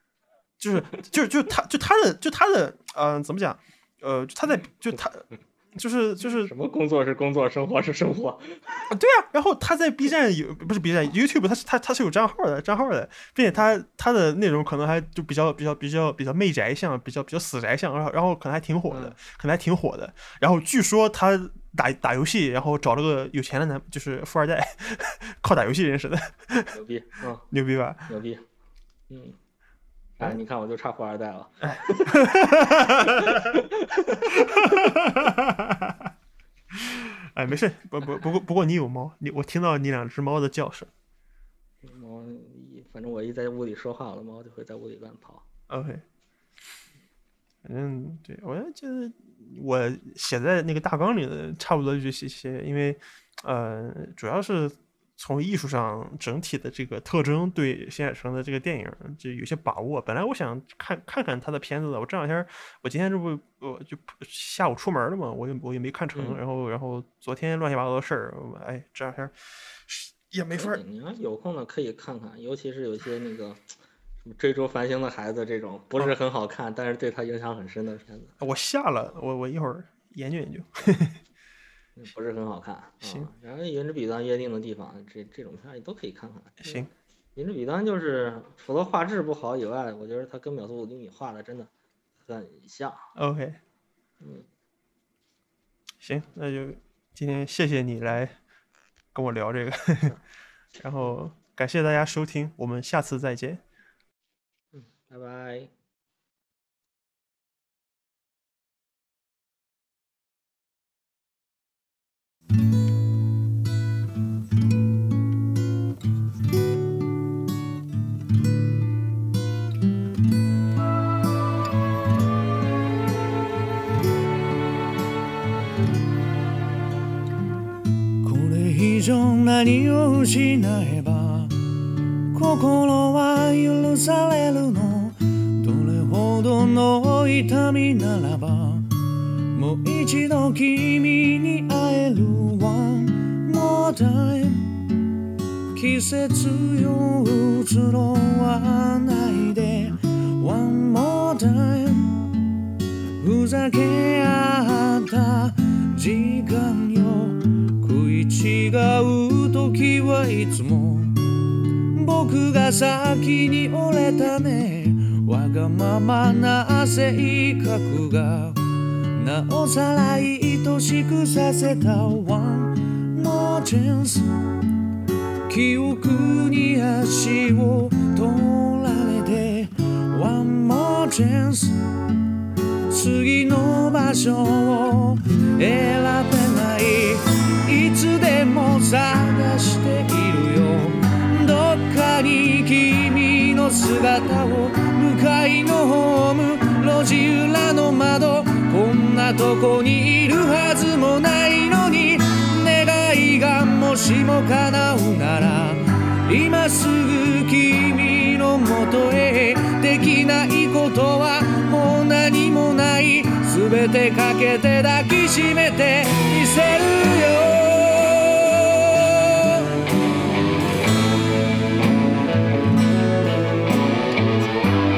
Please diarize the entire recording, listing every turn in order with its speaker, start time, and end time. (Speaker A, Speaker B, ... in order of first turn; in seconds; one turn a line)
Speaker A: 0.6-6.5
Speaker B: 6.4-8.9
Speaker A: 8.9-26.7
Speaker B: 18.9-19.2
Speaker B: 26.7-27.5
Speaker A: 27.5-28.1
Speaker B: 28.1-28.4
Speaker B: 29.1-29.4
Speaker B: 30.2-35.0
Speaker A: 31.6-33.6
Speaker A: 34.2-36.1
Speaker A: 36.7-40.9
Speaker B: 41.8-45.4
Speaker A: 45.7-46.0
Speaker A: 47.6-70.8
Speaker B: 66.1-66.4
Speaker B: 70.5-73.7
Speaker B: 74.2-78.3
Speaker A: 78.4-81.2
Speaker B: 82.0-91.7
Speaker A: 83.0-83.3
Speaker A: 86.6-86.9
Speaker B: 92.2-93.1
Speaker A: 93.1-93.6
Speaker B: 94.2-94.5
Speaker A: 96.0-98.4
Speaker A: 99.1-100.2
Speaker A: 100.8-103.6
Speaker B: 104.7-105.7
Speaker C: 128.2-144.9
Speaker C: 145.7-152.3
Speaker C: 153.2-174.3
Speaker C: 175.5-181.8
Speaker C: 182.9-219.6